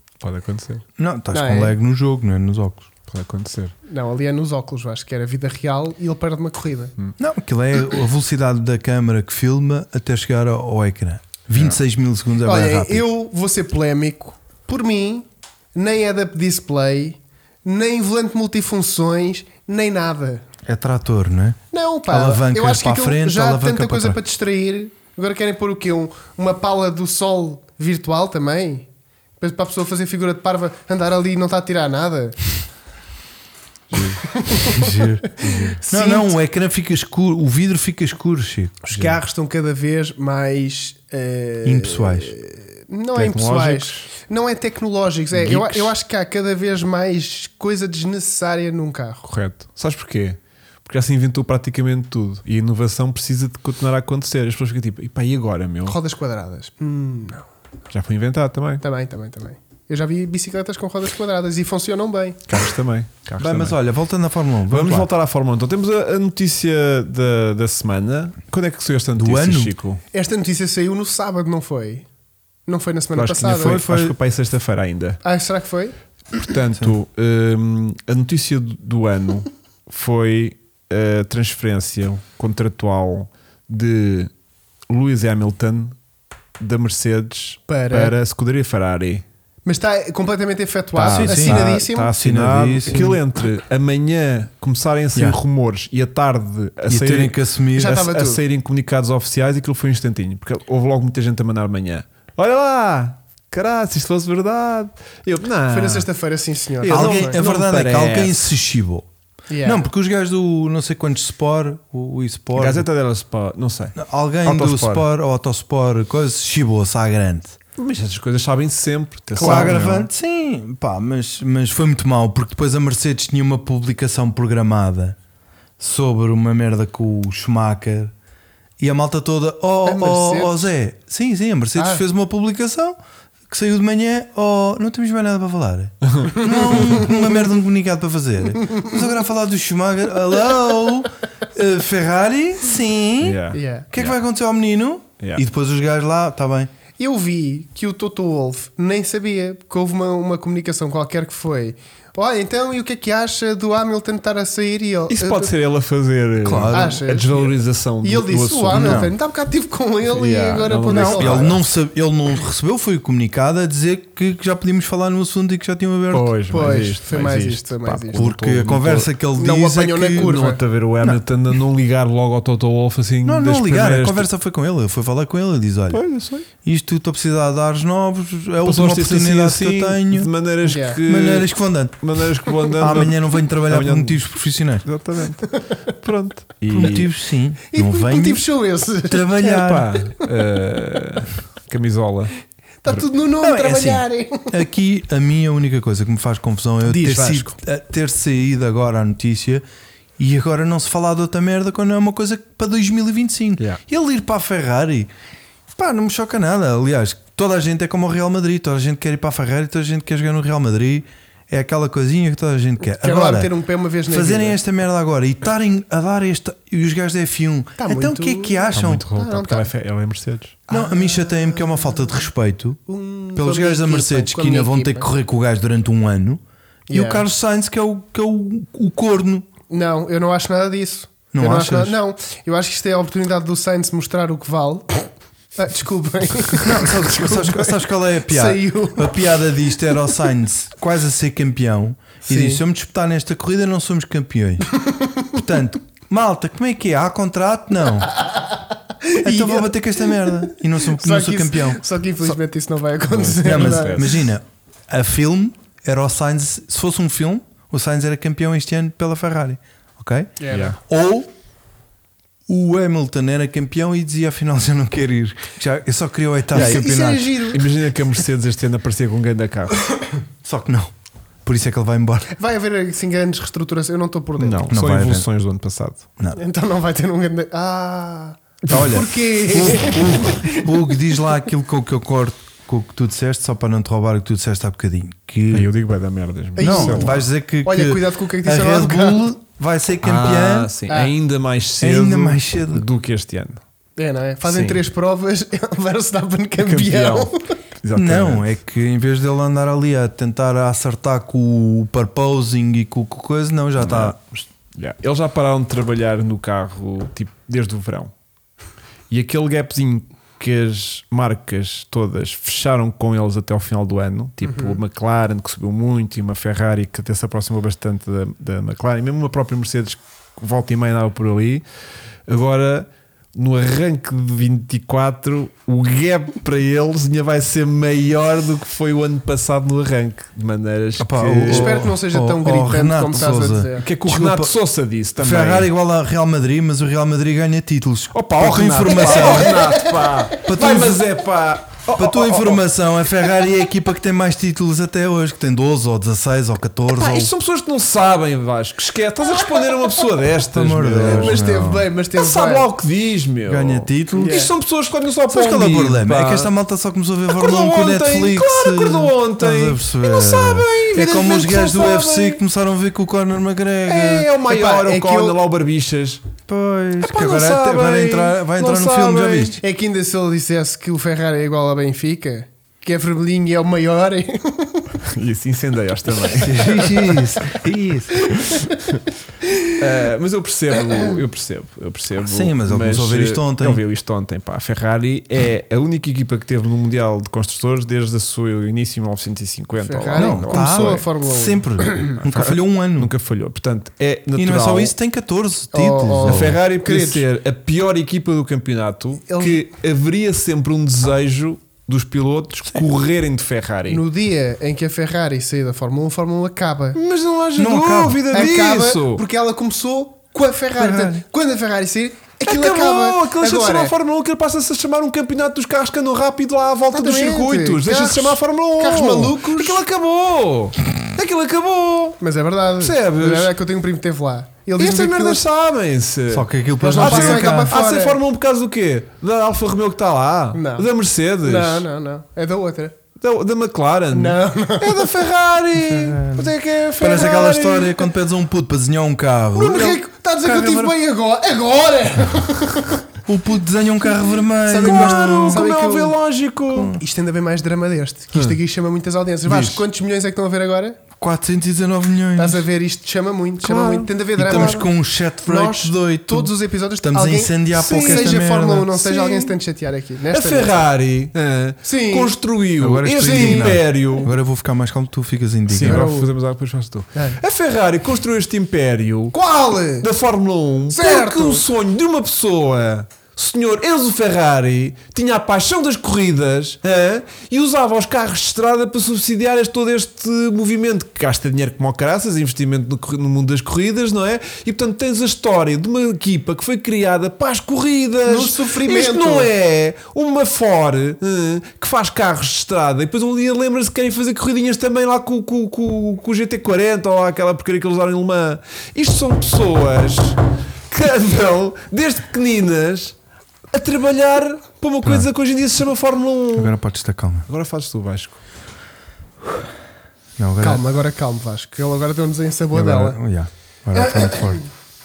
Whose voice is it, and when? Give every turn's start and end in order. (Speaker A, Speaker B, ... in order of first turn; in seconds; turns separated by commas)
Speaker A: 0.2-0.8, Speaker B: 1.0-2.9, Speaker C: 1.3-1.8, Speaker A: 3.1-3.7, Speaker C: 3.9-6.9, Speaker B: 7.2-13.1, Speaker C: 12.4-20.4, Speaker B: 20.6-24.2, Speaker C: 21.7-28.9, Speaker C: 29.4-32.5, Speaker A: 33.9-34.3, Speaker C: 34.3-36.3, Speaker B: 34.7-38.8, Speaker C: 38.8-49.3, Speaker A: 38.9-39.2, Speaker B: 41.6-42.3, Speaker A: 43.1-44.1, Speaker A: 45.3-45.9, Speaker A: 49.2-56.0, Speaker C: 55.9-57.5, Speaker A: 57.9-58.8, Speaker C: 58.8-62.4, Speaker A: 62.5-63.8, Speaker B: 63.4-65.1, Speaker A: 64.7-70.0, Speaker B: 69.2-69.7, Speaker C: 70.1-72.1, Speaker C: 72.7-73.8, Speaker A: 73.2-75.2, Speaker B: 73.5-74.2, Speaker C: 75.2-76.0, Speaker A: 76.4-84.3, Speaker A: 84.9-86.0, Speaker A: 86.6-89.2, Speaker C: 87.7-88.1, Speaker C: 89.7-92.1, Speaker B: 91.0-93.2, Speaker A: 91.1-106.1, Speaker B: 96.9-98.0, Speaker C: 97.8-98.4, Speaker C: 105.7-107.4, Speaker A: 106.8-108.4, Speaker B: 106.9-109.1, Speaker C: 109.5-109.8, Speaker B: 109.6-112.9, Speaker A: 112.5-115.1, Speaker B: 114.0-117.6, Speaker A: 117.8-120.1, Speaker C: 119.4-119.8, Speaker B: 119.4-125.2, Speaker B: 125.8-128.1, Speaker B: 128.8-133.0, Speaker C: 129.9-130.7, Speaker C: 131.8-132.0, Speaker B: 133.5-146.7, Speaker A: 136.0-136.3, Speaker C: 136.5-137.3, Speaker A: 143.2-144.2, Speaker C: 143.5-143.9, Speaker C: 147.0-155.5, Speaker A: 155.1-159.1, Speaker B: 156.4-157.0, Speaker C: 156.7-161.6, Speaker B: 158.7-159.1, Speaker A: 160.1-161.6, Speaker B: 160.9-166.3, Speaker A: 166.1-169.1, Speaker C: 166.5-168.2, Speaker B: 168.1-170.3, Speaker C: 169.4-170.6, Speaker A: 170.2-174.3, Speaker B: 171.0-171.6, Speaker B: 173.2-176.0, Speaker A: 175.9-176.5, Speaker B: 176.6-180.3, Speaker A: 178.7-184.2, Speaker C: 180.6-181.0, Speaker B: 181.1-182.0, Speaker B: 182.8-184.9, Speaker A: 184.8-187.1, Speaker B: 186.7-188.4, Speaker C: 187.7-189.2, Speaker B: 189.1-190.0, Speaker A: 189.4-193.0, Speaker C: 192.8-194.5, Speaker B: 193.4-199.6, Speaker C: 196.9-197.6, Speaker B: 200.2-205.1, Speaker B: 205.8-213.5, Speaker C: 213.0-214.6, Speaker B: 214.1-219.1, Speaker C: 217.8-219.7, Speaker A: 218.7-220.6, Speaker C: 220.7-222.2, Speaker B: 220.7-222.8, Speaker C: 222.9-225.1, Speaker B: 223.3-229.5, Speaker C: 226.9-227.2, Speaker C: 229.7-239.2, Speaker B: 231.3-232.0, Speaker B: 236.6-244.8, Speaker C: 242.3-242.6, Speaker C: 244.7-245.4, Speaker B: 245.3-248.2, Speaker C: 248.1-254.1, Speaker B: 249.2-252.3, Speaker A: 253.1-254.1, Speaker B: 253.4-261.3, Speaker C: 260.4-260.8, Speaker B: 262.5-267.5, Speaker C: 266.5-267.8, Speaker A: 266.5-266.9, Speaker A: 267.5-269.8, Speaker B: 270.4-270.9, Speaker B: 271.4-272.3, Speaker C: 272.3-274.7, Speaker A: 274.4-276.0, Speaker B: 274.7-275.3, Speaker C: 276.3-281.0, Speaker A: 278.7-279.0, Speaker B: 278.7-285.7, Speaker A: 285.5-287.2, Speaker C: 286.6-289.3, Speaker B: 286.6-290.7, Speaker A: 290.0-293.6, Speaker B: 291.8-292.9, Speaker C: 294.0-297.5, Speaker A: 294.4-294.8, Speaker A: 296.6-298.5, Speaker B: 297.9-304.4, Speaker A: 303.8-304.2, Speaker A: 304.8-308.1, Speaker A: 309.1-321.6, Speaker C: 314.5-314.8, Speaker A: 322.3-331.9, Speaker B: 331.0-334.6, Speaker C: 331.5-333.9, Speaker A: 333.8-335.7, Speaker B: 335.2-339.8, Speaker A: 338.1-342.6, Speaker C: 339.1-340.1, Speaker B: 340.4-341.0, Speaker B: 341.9-347.3, Speaker A: 346.9-351.4, Speaker B: 350.5-351.9, Speaker C: 351.1-352.7, Speaker A: 352.2-356.5, Speaker B: 353.5-354.4, Speaker C: 354.2-354.5, Speaker B: 355.3-364.3, Speaker A: 357.3-362.4, Speaker A: 363.9-366.2, Speaker C: 364.5-365.4, Speaker B: 366.5-369.6, Speaker A: 367.0-369.6, Speaker C: 369.6-374.9, Speaker A: 375.1-376.6, Speaker B: 376.4-378.3, Speaker C: 376.6-377.6, Speaker C: 378.1-378.9, Speaker C: 379.5-379.7, Speaker A: 379.8-391.0, Speaker B: 382.3-383.8, Speaker C: 389.8-392.1, Speaker B: 390.1-393.1, Speaker A: 392.2-394.9, Speaker B: 394.4-396.6, Speaker C: 395.7-397.3, Speaker A: 396.2-404.0, Speaker C: 399.3-399.6, Speaker C: 403.9-407.0, Speaker A: 406.9-409.2, Speaker B: 407.6-408.3, Speaker C: 408.3-413.9, Speaker B: 410.8-411.2, Speaker A: 412.4-422.2, Speaker C: 416.9-419.8, Speaker C: 422.2-425.4, Speaker A: 422.8-423.5, Speaker A: 424.8-431.9, Speaker B: 426.3-427.8, Speaker C: 426.8-428.2, Speaker C: 430.5-430.9, Speaker C: 431.4-432.9, Speaker A: 433.2-438.1, Speaker C: 434.1-435.1, Speaker B: 435.8-440.0, Speaker C: 439.6-442.9, Speaker A: 440.5-440.9, Speaker B: 443.3-445.7, Speaker C: 444.7-446.2, Speaker A: 444.8-447.0, Speaker B: 446.7-447.0, Speaker C: 447.0-451.0, Speaker B: 449.5-449.8, Speaker B: 451.2-452.6, Speaker C: 452.4-454.9, Speaker A: 453.6-454.9, Speaker B: 454.4-458.9, Speaker C: 455.5-460.8, Speaker A: 457.7-459.6, Speaker A: 460.3-464.3, Speaker C: 461.8-462.3, Speaker B: 462.8-466.1, Speaker C: 463.2-463.7, Speaker A: 465.7-469.4, Speaker C: 465.8-466.3, Speaker C: 467.1-467.4, Speaker C: 469.3-470.1, Speaker A: 470.0-503.2, Speaker C: 470.9-471.6, Speaker C: 488.2-489.5, Speaker A: 503.7-506.8, Speaker B: 505.0-505.3, Speaker B: 506.5-507.5, Speaker A: 507.5-508.4, Speaker B: 510.4-510.9, Speaker C: 510.6-513.2, Speaker B: 512.7-514.6, Speaker C: 514.0-514.5